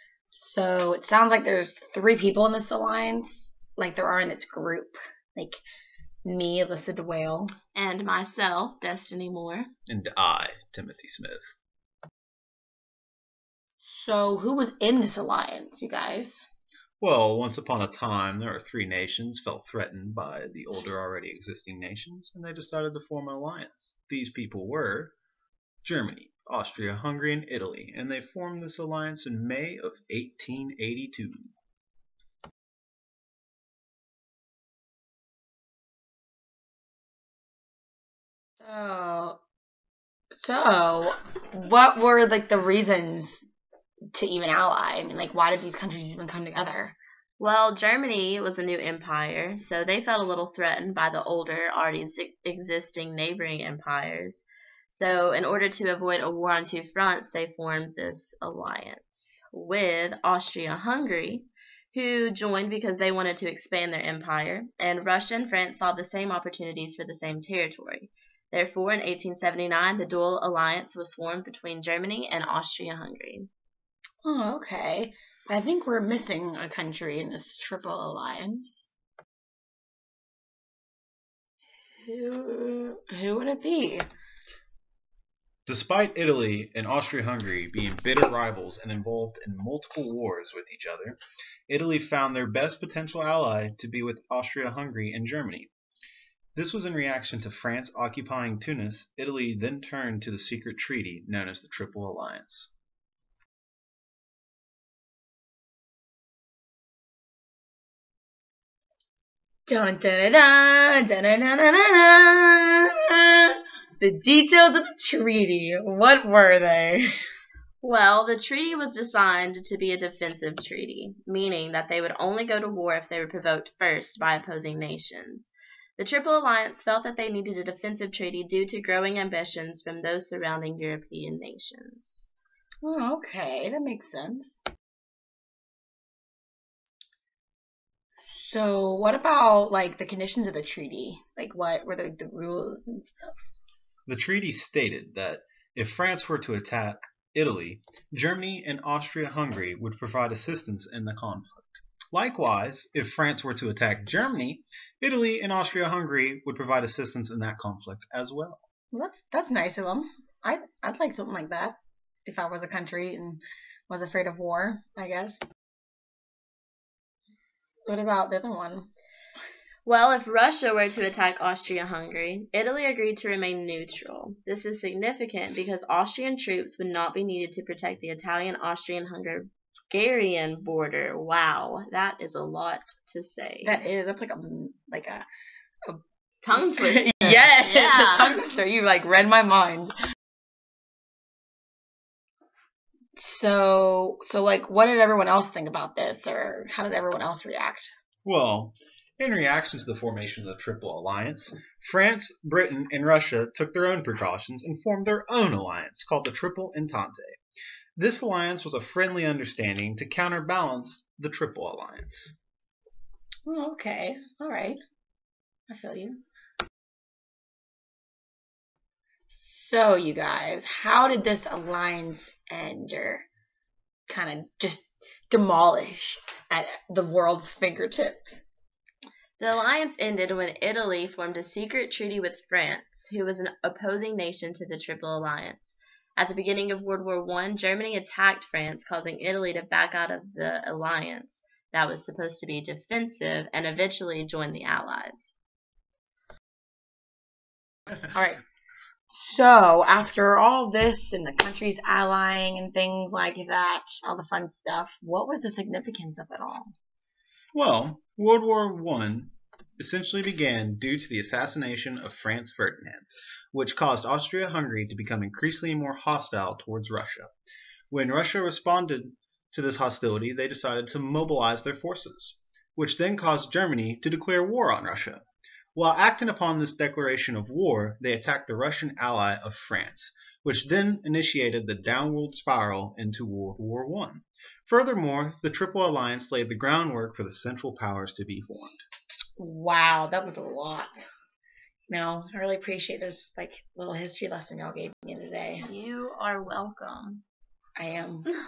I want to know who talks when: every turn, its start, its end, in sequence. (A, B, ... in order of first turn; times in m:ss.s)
0:00.3-0:05.6 A
0:06.2-0:07.5 A
0:07.8-0:09.7 B
0:09.9-0:11.5 C
0:13.8-0:16.4 A
0:17.0-0:25.1 C
0:25.8-0:31.5 C
0:38.6-0:39.4 A
0:40.4-0:43.4 A
0:44.1-0:47.0 A
0:47.4-1:13.5 B
1:14.2-1:18.9 A
1:22.0-1:24.0 A
1:25.7-1:35.7 C
1:36.6-1:42.7 C
1:49.7-1:57.1 A
1:57.8-2:12.3 B
2:12.8-2:14.6 A
2:18.3-2:23.4 A
2:24.1-2:38.6 C
2:38.9-2:45.4 A
2:47.9-2:48.9 A
2:49.8-3:03.8 B
3:03.6-3:05.2 A
3:06.4-3:08.4 B
3:06.5-3:09.9 A
3:13.2-3:17.9 A
3:18.2-3:27.4 C
3:28.0-3:32.3 C
3:33.5-3:34.8 A
3:35.7-3:36.2 A
3:39.3-3:43.2 A
3:44.1-3:48.4 A
3:49.4-4:05.3 B
4:08.1-4:08.4 A
4:09.1-4:16.7 A
4:17.5-4:27.3 C
4:27.9-4:35.2 C
4:35.8-4:48.8 C
4:49.4-4:51.0 A
4:51.9-4:55.7 A
4:55.6-4:57.2 B
4:57.8-4:58.3 A